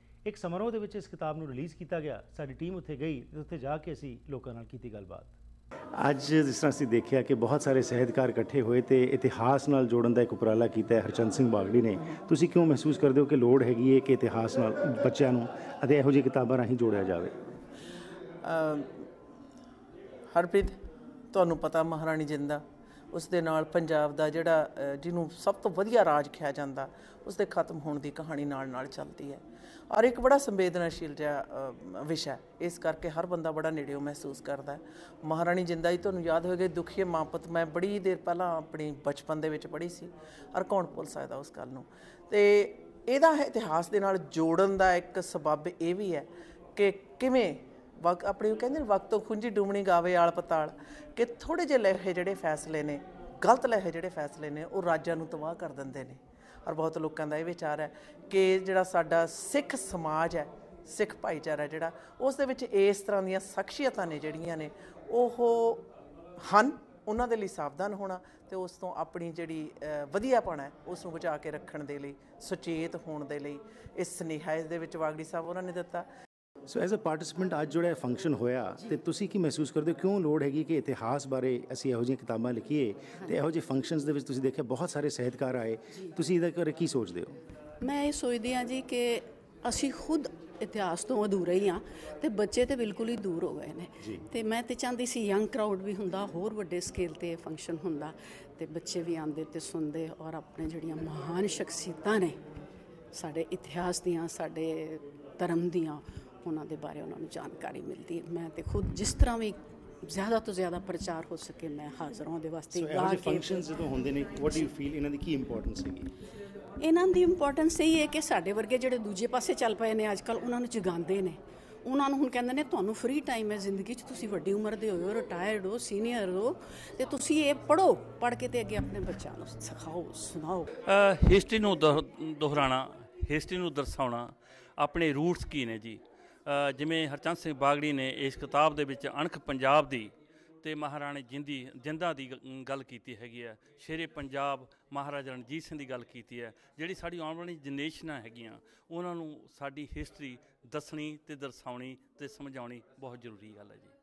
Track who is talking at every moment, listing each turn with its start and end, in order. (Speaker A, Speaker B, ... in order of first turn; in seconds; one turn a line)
Speaker A: 0.2-5.4
Speaker A: 6.0-17.3
Speaker B: 18.4-18.9
Speaker B: 20.3-20.7
Speaker B: 21.3-65.9
Speaker B: 66.4-76.1
Speaker A: 76.7-87.3
Speaker C: 87.8-102.4
Speaker C: 103.1-113.7
Speaker A: 112.7-116.1
Speaker C: 116.8-130.7
Speaker D: 130.8-140.1
Speaker D: 140.6-153.9